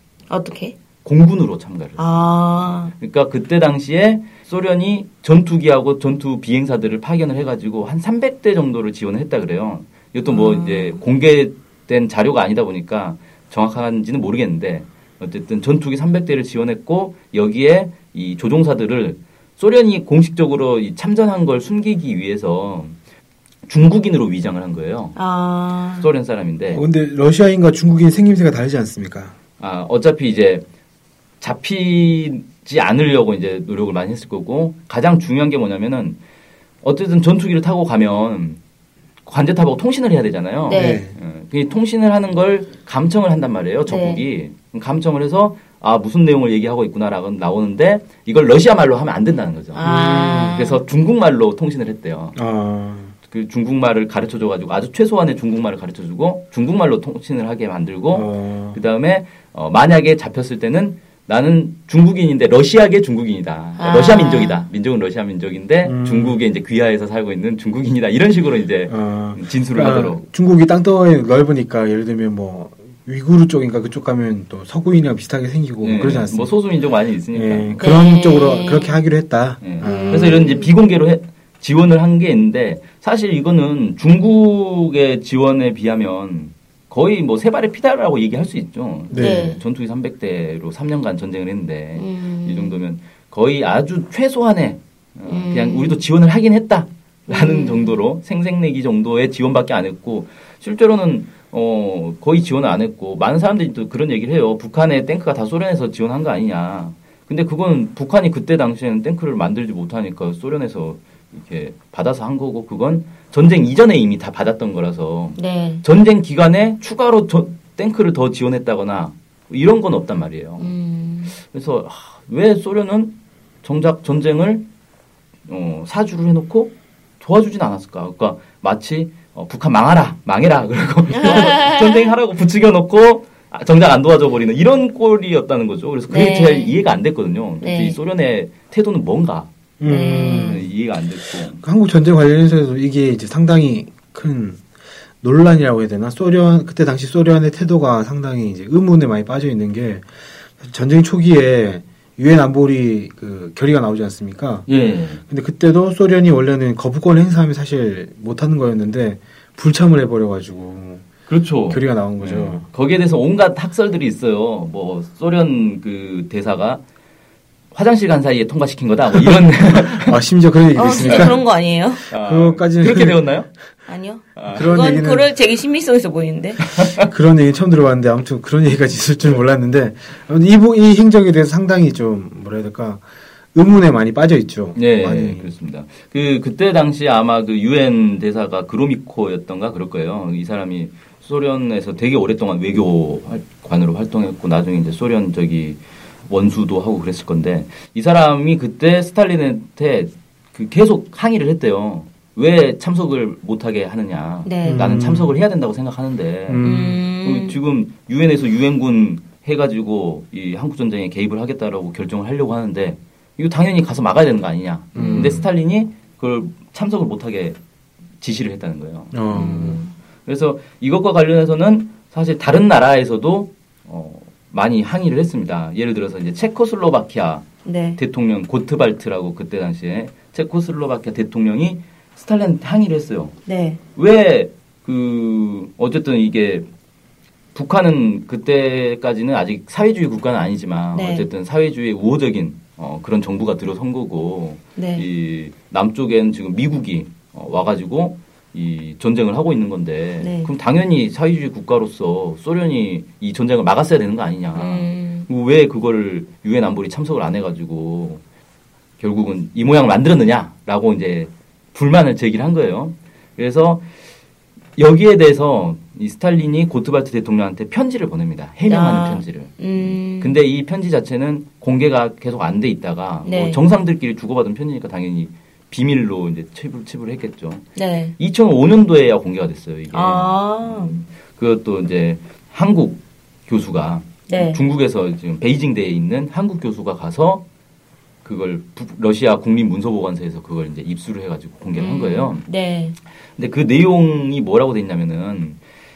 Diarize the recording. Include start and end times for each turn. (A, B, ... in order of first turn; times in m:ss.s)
0:00.3-0:00.8 A
0:01.0-0:02.0 B
0:02.0-0:02.9 A
0:03.0-0:23.0 B
0:10.2-0:11.0 A
0:23.7-0:25.2 B
0:25.2-0:26.1 A
0:26.0-0:26.8 B
0:26.7-0:29.3 C
0:29.6-0:30.6 B
0:31.4-0:36.2 B
0:36.8-0:38.6 B
0:39.2-0:49.9 B
0:40.7-0:41.0 A
0:40.7-0:41.2 C
0:43.9-0:44.2 A
0:49.7-0:50.8 A
0:49.8-0:50.6 C
0:50.5-0:52.4 B
0:52.3-0:53.1 C
0:53.3-1:10.2 B
0:58.1-0:58.8 C
1:03.8-1:04.7 A
1:05.8-1:06.4 C
1:08.9-1:16.5 C
1:15.8-1:17.8 B
1:17.3-1:20.4 C
1:17.8-1:19.0 A
1:19.6-2:00.7 B
1:19.8-1:20.7 A
1:29.1-1:29.6 C
1:29.1-1:29.6 A
1:32.0-1:32.7 A
1:35.3-1:36.0 A
1:37.3-1:38.0 A
1:55.4-1:55.8 A
2:00.6-2:01.4 A
2:01.4-2:04.6 B
2:05.5-2:21.6 B
2:11.2-2:11.9 A
2:16.1-2:16.7 A
2:17.6-2:18.0 A
2:19.8-2:20.7 C
2:19.8-2:20.6 A
2:21.6-2:24.6 C
2:25.2-2:34.7 C
2:34.7-2:35.2 B
2:35.3-2:41.0 C
2:41.3-2:46.8 B
2:41.7-2:42.6 C
2:47.7-2:50.1 B
2:49.2-2:51.4 C
2:50.7-2:52.0 A
2:51.0-2:51.4 B
2:52.1-2:53.5 B
2:52.1-2:53.2 C
2:53.9-2:56.8 A
2:54.4-2:54.7 B
2:54.5-2:55.3 C
2:56.6-2:57.1 B
2:57.0-3:05.5 C
3:04.7-3:37.6 B
3:24.4-3:24.8 A
3:24.6-3:25.3 C
3:26.5-3:27.0 C
3:26.6-3:27.6 A
3:34.9-3:35.4 A
3:34.9-3:35.5 C
3:38.2-3:39.7 B
3:39.1-3:39.8 C
3:39.3-3:39.9 A
3:40.2-3:53.4 B
3:47.6-3:48.0 A
3:53.4-3:53.8 A
3:54.0-3:56.7 B
3:57.5-4:18.2 B
4:00.9-4:01.3 A
4:04.8-4:05.0 A
4:10.2-4:10.5 A
4:14.5-4:15.3 A
4:19.0-4:23.8 B
4:24.8-4:37.6 B
4:28.6-4:30.3 A
4:33.2-4:33.6 A
4:37.8-4:38.1 A
4:38.2-4:47.4 B
4:39.9-4:41.0 A
4:44.3-4:44.6 A
4:48.2-4:52.4 B
4:51.8-4:53.0 A
4:53.4-4:55.6 B